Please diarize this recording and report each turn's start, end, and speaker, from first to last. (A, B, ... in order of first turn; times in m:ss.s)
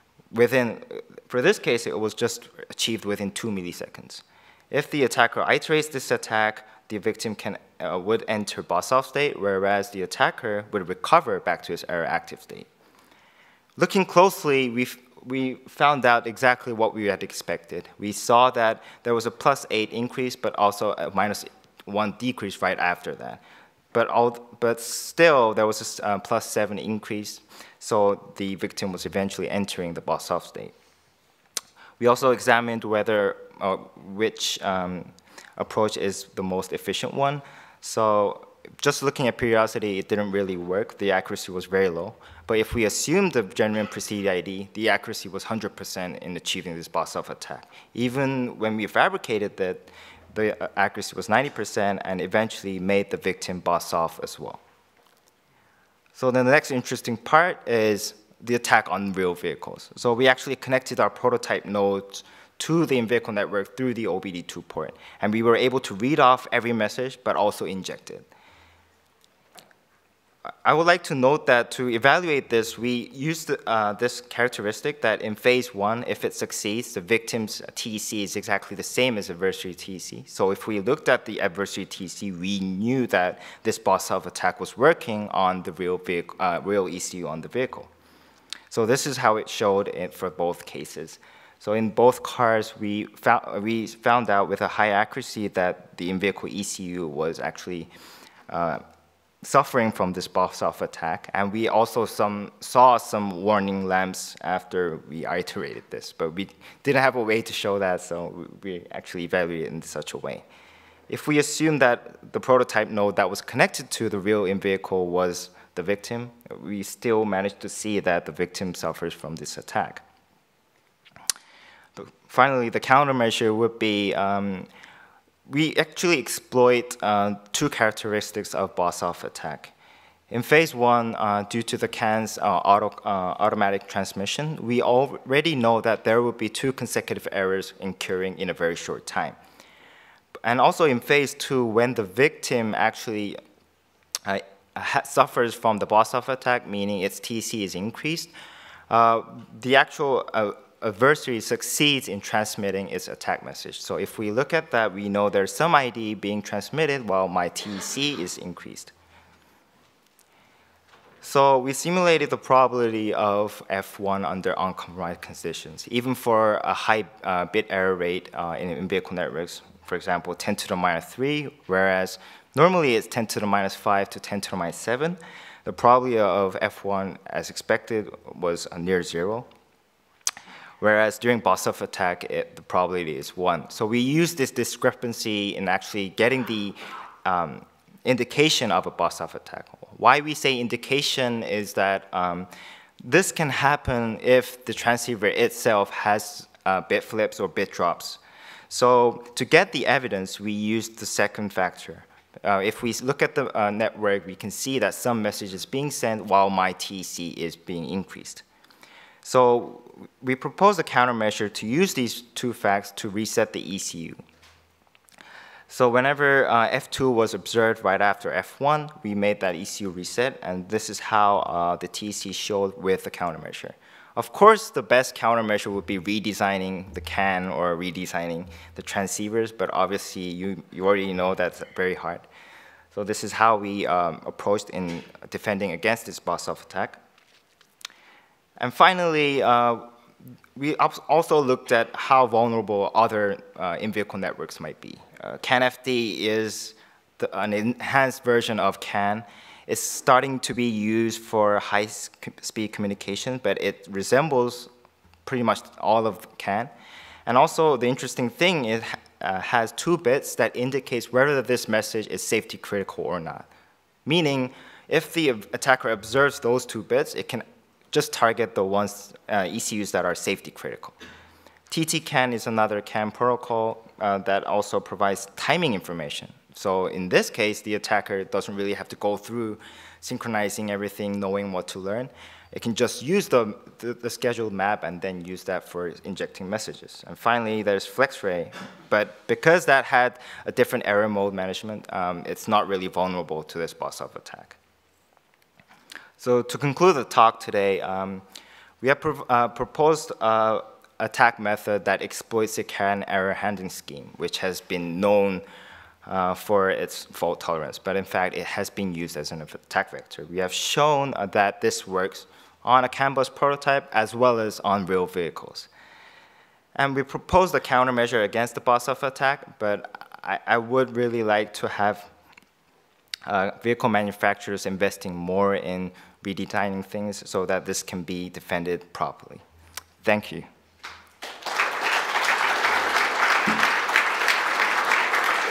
0:00.3-0:12.7 A
0:13.8-0:23.4 A
0:23.9-0:30.7 A
0:32.0-0:54.6 A
0:56.2-1:08.3 A
1:10.6-1:27.9 A
1:28.7-1:37.9 A
1:38.5-1:38.8 A
1:39.4-1:50.4 A
1:51.1-2:00.0 A
2:02.0-2:04.7 A
2:05.5-2:09.7 A
2:10.3-2:19.4 A
2:20.4-2:23.4 A
2:24.3-2:28.3 A
2:28.9-2:38.9 A
2:41.2-2:59.5 A
3:00.8-3:12.5 A
3:13.0-3:28.4 A
3:29.2-3:34.2 A
3:35.7-3:52.3 A
3:52.9-3:57.0 A
3:58.6-3:59.9 A
4:00.6-4:14.7 A
4:15.3-4:16.7 A
4:17.3-4:23.5 A
4:24.1-4:31.0 A
4:31.7-4:54.6 A
4:56.2-4:58.2 A
4:58.8-5:05.4 A
5:06.0-5:15.7 A
5:16.8-5:22.1 A
5:23.3-5:29.4 A
5:30.0-5:30.5 A